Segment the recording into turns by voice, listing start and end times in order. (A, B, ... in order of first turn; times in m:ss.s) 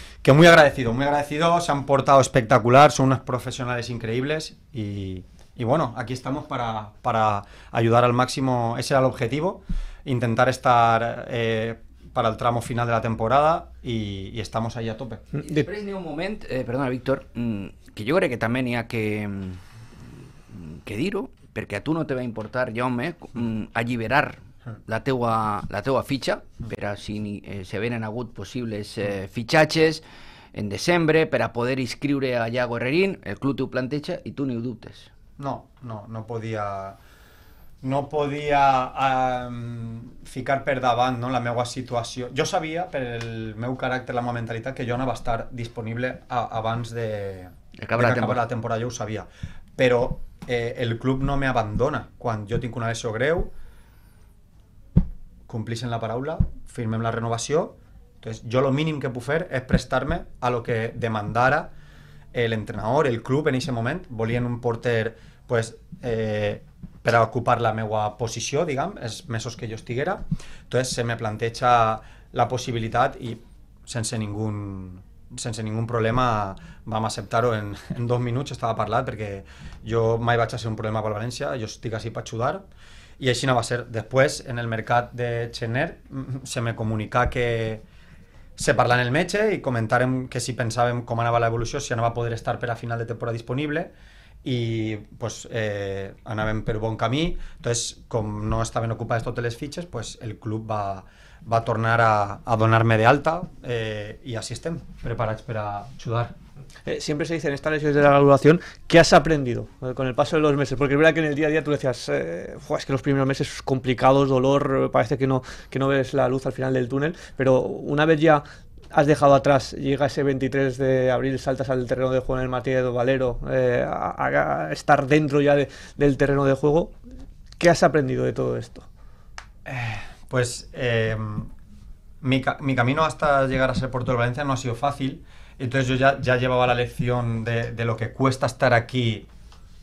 0:00.2-0:15.2 A
0:15.4-0:19.6 B
0:20.5-0:30.0 B
0:30.5-0:35.1 B
0:35.4-0:37.0 A
0:37.8-0:53.5 A
0:47.8-0:48.4 B
0:55.5-1:01.7 A
1:02.3-1:22.6 A
1:23.2-1:27.8 A
1:28.6-1:33.9 A
1:34.4-1:46.4 A
1:46.8-1:58.4 C
1:58.9-2:06.9 C
2:07.6-2:08.9 C
2:09.6-2:11.5 A
2:12.2-2:19.3 A